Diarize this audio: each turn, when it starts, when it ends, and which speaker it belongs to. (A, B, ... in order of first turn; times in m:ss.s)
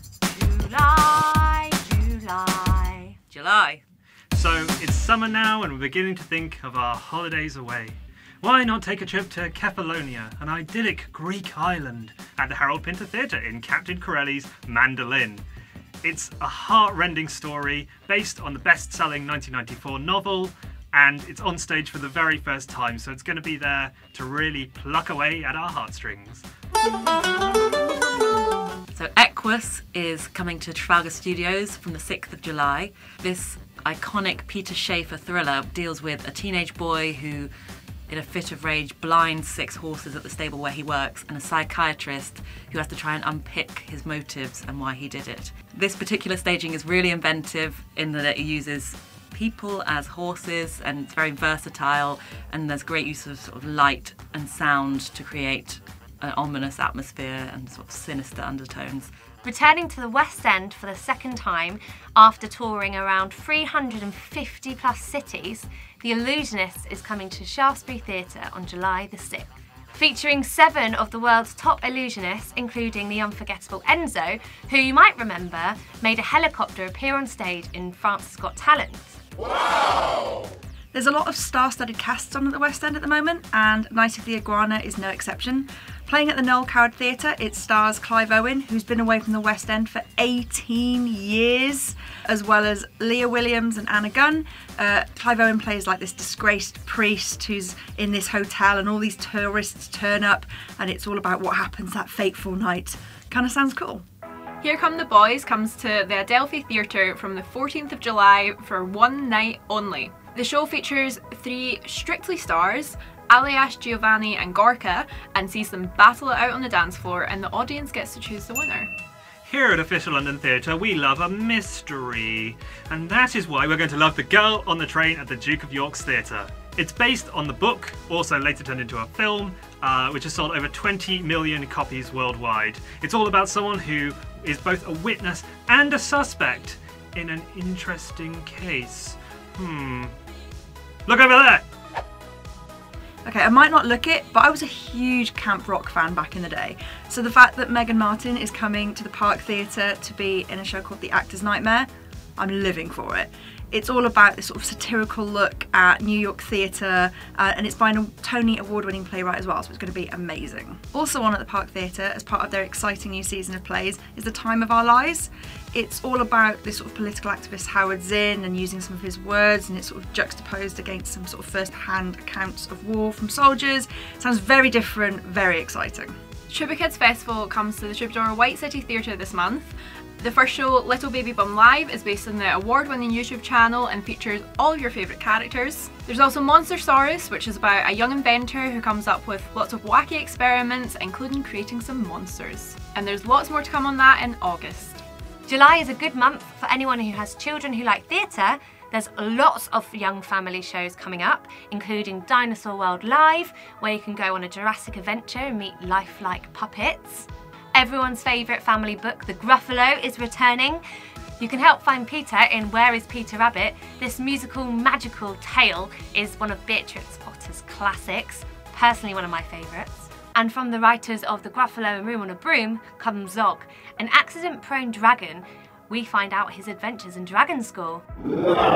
0:00.3-0:03.2 A
0:03.3-0:03.8 B
0:04.3-0:15.4 C
0:16.0-0:26.5 C
0:28.9-0:37.5 B
0:38.1-0:59.1 B
0:59.4-1:19.2 A
1:20.9-1:44.0 D
1:44.6-1:58.9 E
1:59.4-2:20.2 C
2:21.1-2:21.6 C
2:23.2-2:56.1 D
2:56.5-3:15.0 E
3:15.5-3:30.8 A
3:31.4-3:48.0 A